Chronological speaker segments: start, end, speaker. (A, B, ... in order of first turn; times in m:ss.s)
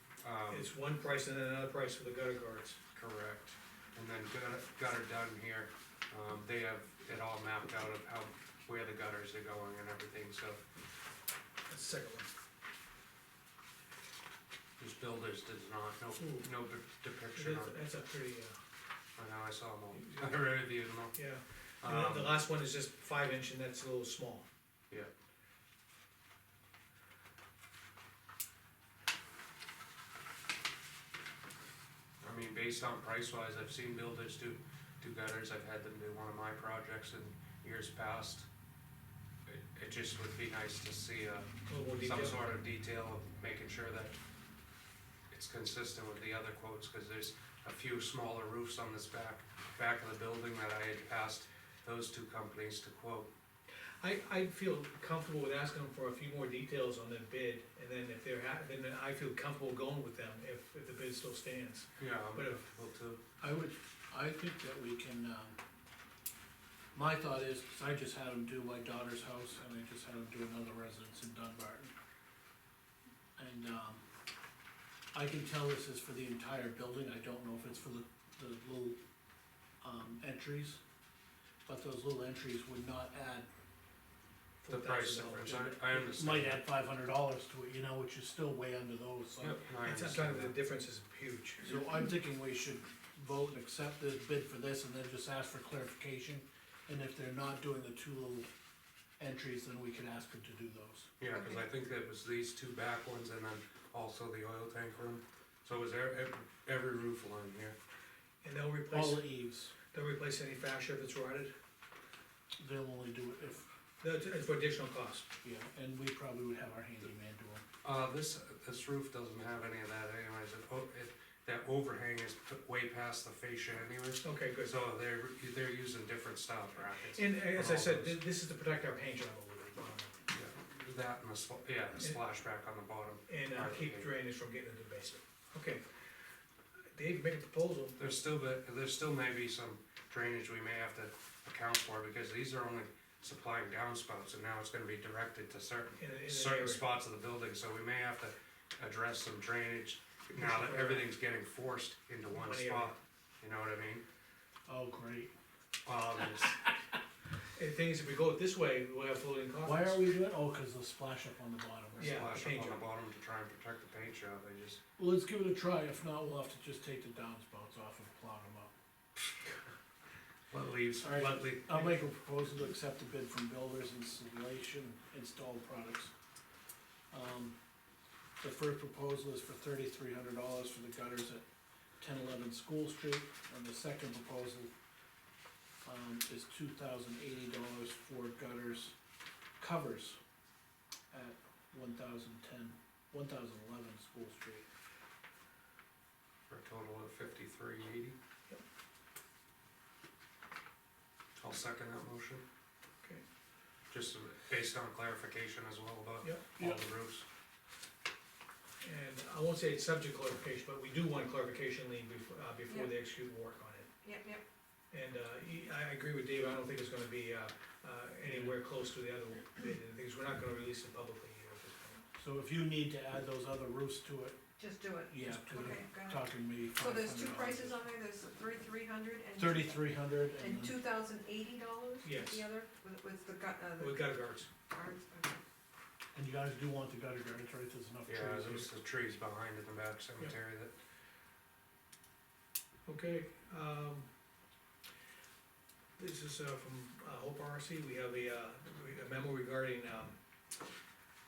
0:00.2-0:00.7 A
0:00.5-0:02.8 B
0:02.9-0:10.6 A
0:11.7-0:12.3 B
0:14.8-0:17.8 A
0:16.1-0:16.5 B
0:17.3-0:18.6 B
0:19.2-0:21.2 A
0:20.0-0:20.3 B
0:21.1-0:24.4 B
0:21.8-0:22.4 A
0:32.2-0:38.5 A
0:39.5-0:44.2 A
0:41.7-0:42.5 B
0:45.3-0:53.3 A
0:54.0-1:02.6 B
1:02.0-1:03.2 A
1:03.4-1:05.6 C
1:06.9-1:11.9 C
1:13.4-1:14.0 C
1:15.1-1:19.0 C
1:19.8-1:20.8 C
1:21.7-1:23.5 C
1:24.7-1:29.6 C
1:24.7-1:26.7 A
1:29.4-1:30.6 A
1:29.8-1:31.8 B
1:31.6-1:38.5 C
1:39.2-1:41.1 C
1:41.2-1:47.8 A
1:41.3-1:41.6 D
1:48.4-1:49.3 B
1:48.9-1:49.7 C
1:49.9-1:51.5 B
1:52.6-1:53.7 C
1:54.0-1:55.3 B
1:55.4-1:57.6 C
1:57.8-2:08.2 A
2:04.2-2:04.8 B
2:07.1-2:10.2 B
2:10.3-2:14.1 A
2:12.0-2:12.2 B
2:13.3-2:16.0 B
2:16.9-2:18.0 B
2:18.0-2:34.0 A
2:26.0-2:26.9 B
2:30.3-2:31.1 B
2:32.3-2:32.9 B
2:34.7-2:35.3 C
2:35.8-2:36.7 A
2:37.5-2:40.0 B
2:39.6-2:42.2 C
2:42.0-2:44.8 A
2:42.0-2:42.8 B
2:45.0-2:48.7 C
2:50.5-2:52.1 A
2:50.9-2:56.1 C
2:57.1-2:57.6 C
2:58.4-3:01.4 C
3:02.0-3:04.7 C
3:05.8-3:08.9 C
3:09.6-3:10.2 C
3:11.1-3:14.7 C
3:16.5-3:18.2 A
3:21.4-3:22.4 A
3:23.9-3:27.2 A
3:26.2-3:26.5 B
3:28.8-3:33.9 B
3:32.7-3:32.9 D
3:34.0-3:34.4 D
3:34.9-3:42.0 B
3:38.2-3:38.5 C
3:42.2-3:44.4 C
3:44.6-3:54.1 D
3:45.1-3:47.8 C
3:49.4-3:50.8 C
3:52.0-3:52.5 B
3:53.8-3:54.5 B
3:54.7-3:55.4 D
3:56.1-3:58.7 C
3:58.1-4:00.7 A
4:02.8-4:04.1 B
4:06.0-4:10.2 B